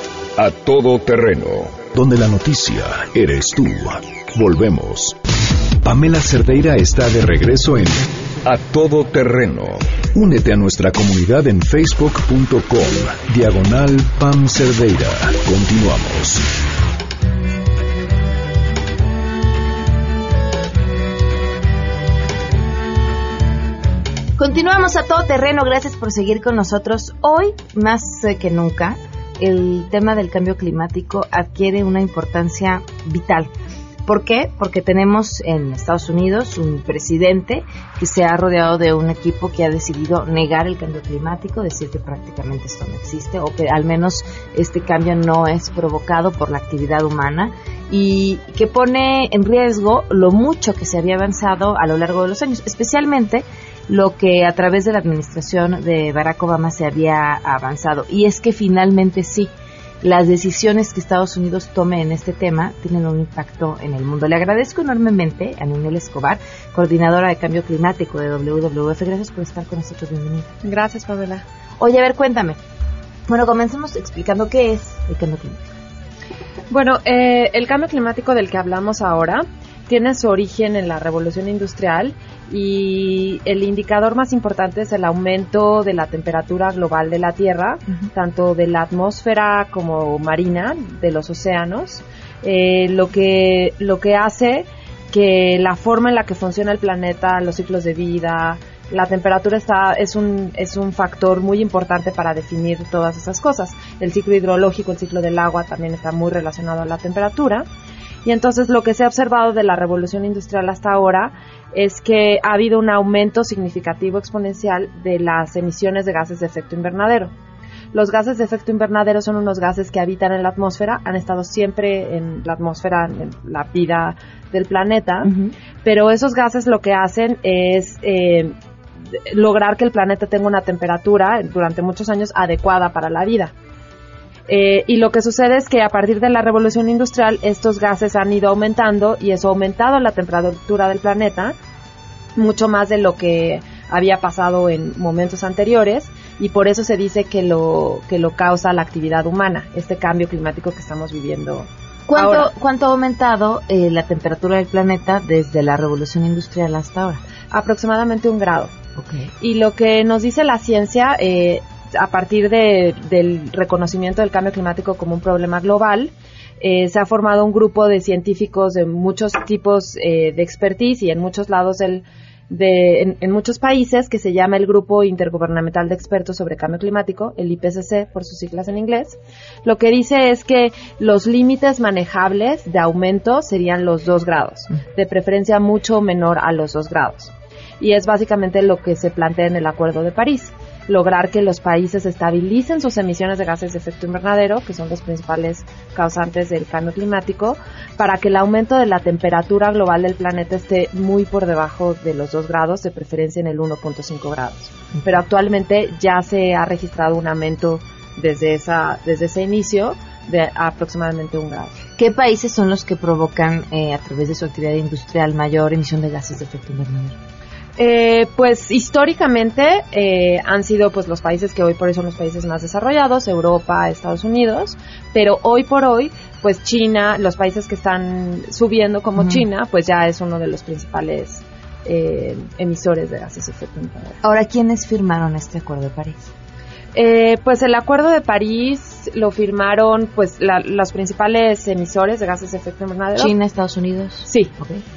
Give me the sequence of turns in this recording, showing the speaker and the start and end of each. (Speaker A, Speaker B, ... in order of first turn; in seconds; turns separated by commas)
Speaker A: 0.4-5.2, Speaker A: 5.8-16.4, Speaker B: 24.4-33.5, Speaker B: 34.1-59.5, Speaker B: 60.0-70.5, Speaker C: 70.6-71.4, Speaker B: 71.8-72.6, Speaker B: 73.3-75.7, Speaker C: 76.7-107.7, Speaker C: 108.2-117.3, Speaker C: 117.9-125.3, Speaker B: 125.2-125.5, Speaker C: 125.8-128.5, Speaker C: 129.2-133.5, Speaker C: 134.5-141.5, Speaker C: 142.4-152.5, Speaker B: 152.1-157.2, Speaker C: 157.5-158.7, Speaker B: 159.0-159.3, Speaker C: 159.4-211.8, Speaker B: 212.0-217.1, Speaker C: 217.8-234.2, Speaker B: 229.2-229.5, Speaker B: 234.2-236.3, Speaker C: 236.9-243.3, Speaker B: 243.2-244.8, Speaker C: 244.2-244.5